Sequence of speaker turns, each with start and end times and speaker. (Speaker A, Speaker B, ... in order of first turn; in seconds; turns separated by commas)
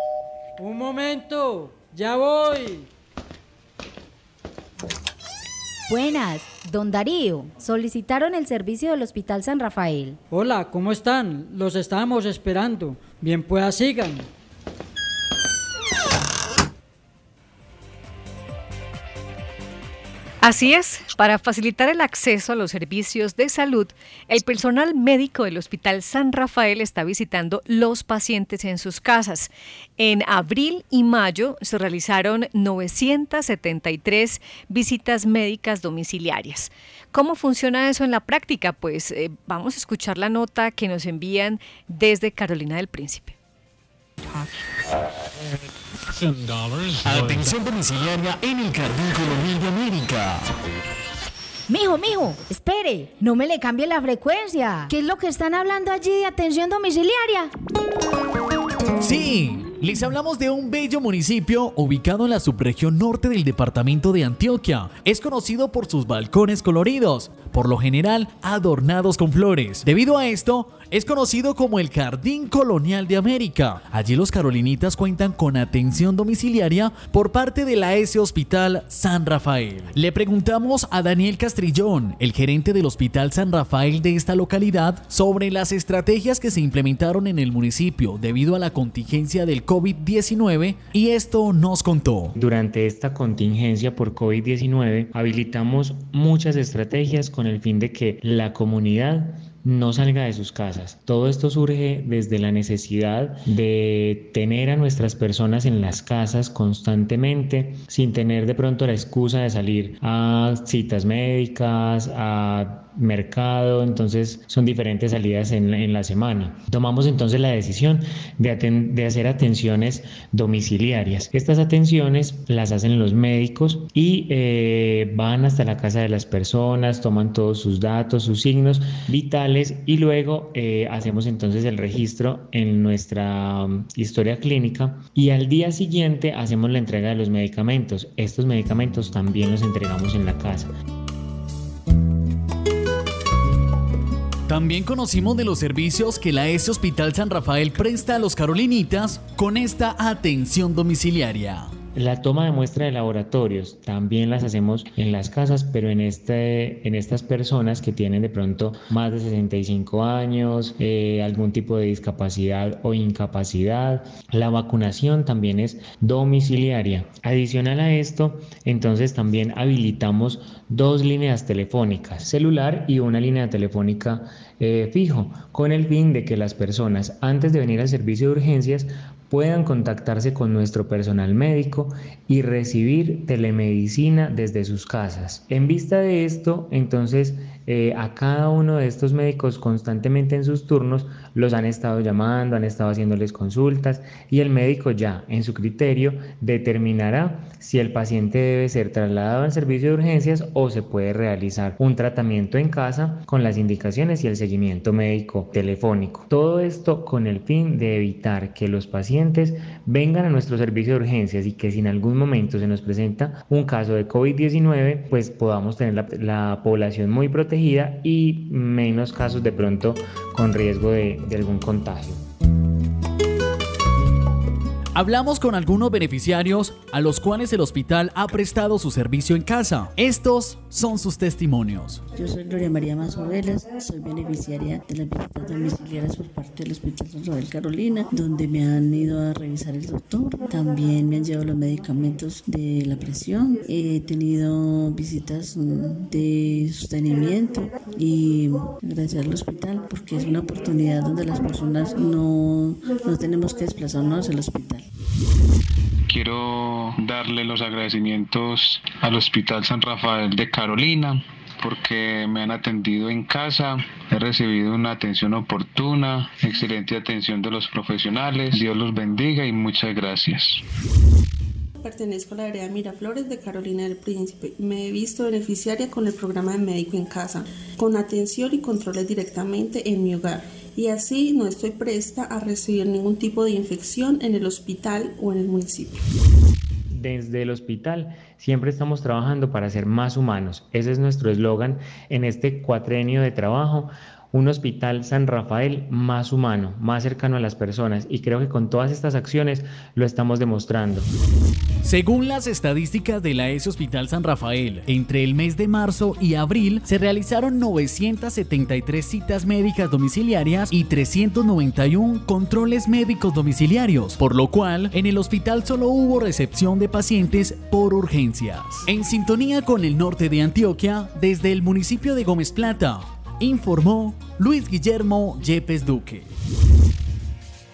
Speaker A: 0.6-2.9, Speaker B: 5.9-10.2, Speaker A: 10.3-14.3, Speaker C: 20.4-43.3, Speaker B: 51.7-57.5, Speaker D: 59.0-92.3, Speaker E: 92.3-140.7, Speaker D: 144.5-151.7, Speaker E: 151.9-222.2, Speaker D: 224.9-232.0, Speaker F: 232.1-254.9, Speaker G: 256.1-270.6, Speaker H: 271.8-286.0, Speaker E: 286.9-301.1, Speaker D: 301.8-326.3